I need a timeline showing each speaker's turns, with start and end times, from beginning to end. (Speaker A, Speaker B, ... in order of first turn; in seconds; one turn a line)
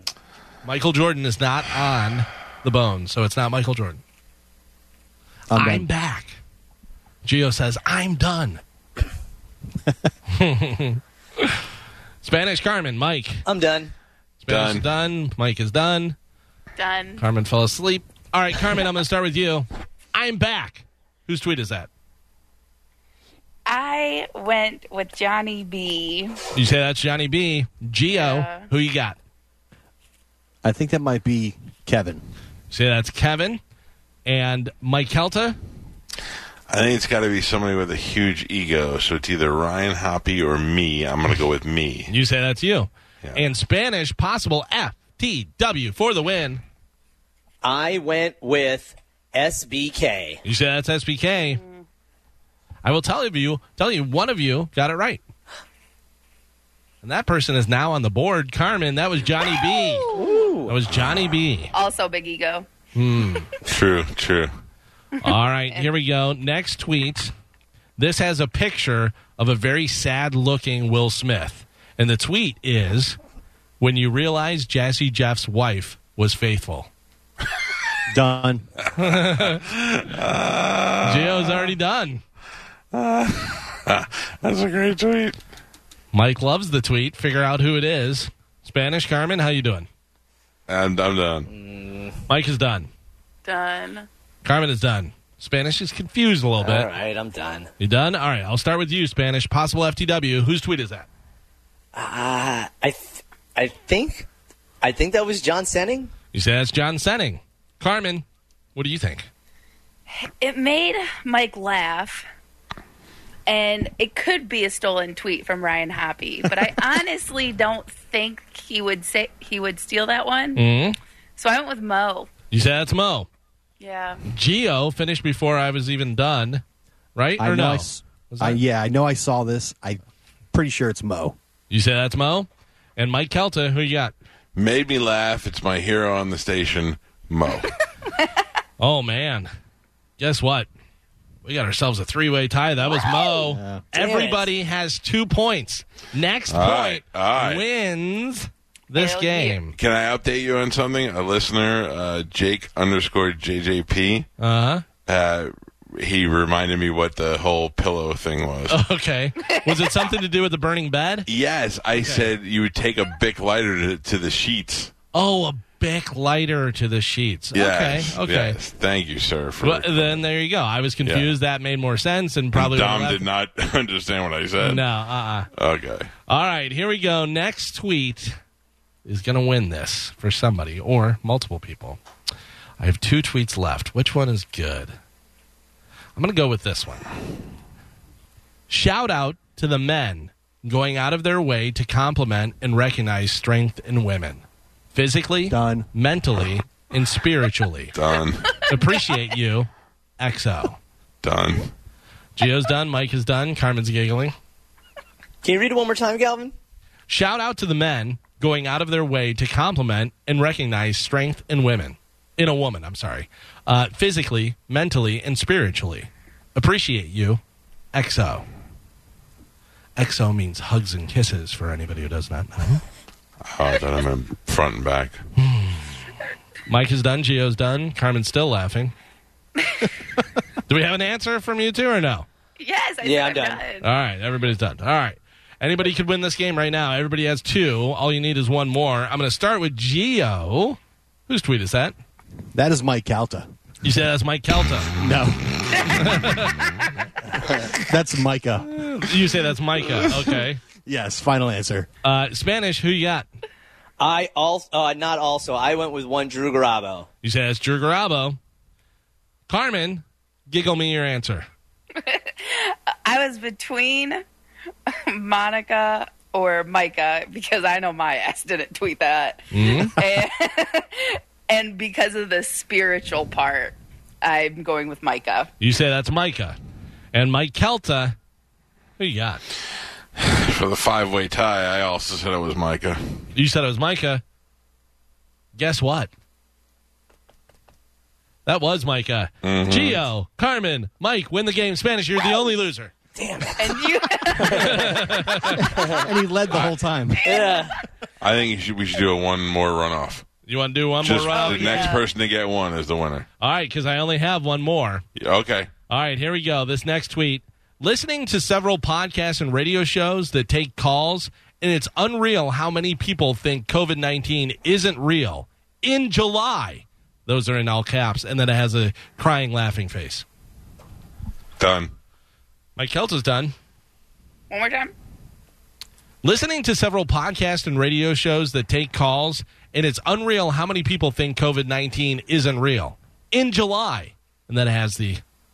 Speaker A: 0.6-4.0
Speaker B: 5.5-5.9
Speaker A: 5.5-6.4
Speaker A: 7.2-8.6
Speaker A: 10.3-11.6
Speaker A: 12.2-13.4
Speaker C: 13.4-13.9
Speaker A: 14.4-16.1
Speaker D: 14.5-14.8
Speaker E: 16.8-17.2
Speaker A: 17.2-21.9
Speaker E: 23.6-26.4
Speaker A: 26.5-29.2
Speaker E: 28.1-28.7
Speaker B: 30.6-32.2
Speaker A: 32.7-33.6
Speaker A: 34.2-35.6
Speaker D: 36.7-42.1
Speaker A: 42.1-46.6
Speaker C: 47.6-50.4
Speaker A: 50.4-51.6
Speaker E: 51.5-51.8
Speaker A: 52.8-55.2
Speaker A: 57.0-60.1
Speaker C: 60.1-60.8
Speaker A: 60.6-61.7
Speaker D: 60.9-61.3
Speaker E: 61.7-62.7
Speaker A: 62.9-63.5
Speaker D: 63.6-64.5
Speaker E: 65.2-65.8
Speaker A: 65.2-67.3
Speaker A: 68.0-73.2
Speaker A: 73.8-76.9
Speaker B: 78.1-78.7
Speaker A: 78.9-79.6
Speaker D: 79.0-81.7
Speaker A: 81.0-82.2
Speaker D: 82.9-85.4
Speaker A: 86.1-89.9
Speaker D: 90.7-91.5
Speaker C: 91.5-92.2
Speaker A: 92.3-92.9
Speaker E: 93.4-94.1
Speaker A: 94.4-96.9
Speaker C: 96.6-97.7
Speaker A: 97.8-101.1
Speaker C: 101.9-104.3
Speaker C: 104.8-106.1
Speaker A: 106.3-109.3
Speaker E: 110.1-112.2
Speaker E: 113.5-120.6
Speaker A: 120.5-121.0
Speaker E: 121.4-122.3
Speaker A: 122.5-123.3
Speaker E: 123.8-124.2
Speaker A: 124.3-126.6
Speaker A: 127.2-128.6
Speaker B: 127.4-130.0
Speaker B: 130.5-131.4
Speaker A: 131.7-134.1
Speaker D: 134.5-137.7
Speaker A: 138.8-139.5
Speaker A: 140.2-140.7
Speaker A: 141.4-149.7
Speaker B: 143.4-143.8
Speaker C: 143.9-144.4
Speaker D: 146.5-147.6
Speaker E: 148.9-149.6
Speaker D: 149.8-154.3
Speaker A: 154.4-154.8
Speaker D: 155.1-158.8
Speaker A: 158.7-161.3
Speaker E: 159.4-160.1
Speaker D: 161.2-164.9
Speaker A: 161.9-162.3
Speaker A: 165.1-168.6
Speaker D: 167.5-170.2
Speaker A: 169.6-173.2
Speaker D: 171.0-171.3
Speaker D: 172.5-174.9
Speaker A: 174.6-175.5
Speaker D: 175.5-176.1
Speaker A: 176.3-178.4
Speaker A: 179.0-182.0
Speaker A: 182.8-184.9
Speaker A: 186.2-187.1
Speaker A: 188.7-197.9
Speaker B: 195.5-195.9
Speaker D: 197.9-198.6
Speaker A: 198.7-200.8
Speaker D: 201.2-201.7
Speaker A: 202.3-204.3
Speaker C: 205.4-206.5
Speaker A: 207.1-217.4
Speaker A: 217.9-218.4
Speaker A: 220.0-222.8
Speaker D: 223.4-225.2
Speaker A: 225.4-225.9
Speaker A: 226.7-228.9
Speaker A: 230.7-232.3
Speaker E: 232.6-233.8
Speaker C: 233.0-233.6
Speaker A: 233.8-241.9
Speaker B: 242.5-243.5
Speaker A: 243.8-244.9
Speaker B: 245.0-245.9
Speaker A: 245.8-246.7
Speaker B: 247.5-249.1
Speaker A: 248.7-250.6
Speaker B: 249.9-251.9
Speaker A: 252.0-253.3
Speaker C: 254.0-257.1
Speaker A: 257.2-258.4
Speaker A: 259.5-261.5
Speaker E: 262.0-264.2
Speaker E: 264.9-275.5
Speaker A: 269.5-270.0
Speaker A: 275.6-276.6
Speaker A: 277.1-278.1
Speaker A: 279.0-279.4
Speaker D: 280.1-283.3
Speaker A: 283.3-284.2
Speaker A: 285.5-286.1
Speaker A: 288.4-292.9
Speaker D: 289.4-290.0
Speaker C: 293.1-295.1
Speaker E: 293.6-294.9
Speaker A: 294.5-295.6
Speaker B: 295.6-297.4
Speaker C: 295.7-296.0
Speaker E: 297.2-297.8
Speaker C: 297.2-297.8
Speaker D: 298.2-300.2
Speaker A: 300.5-302.0
Speaker D: 301.0-303.3
Speaker E: 301.3-302.0
Speaker A: 303.4-305.0
Speaker D: 305.2-305.7
Speaker A: 305.9-320.2
Speaker D: 321.6-321.9
Speaker A: 322.8-323.5
Speaker E: 324.5-324.9
Speaker A: 326.2-335.2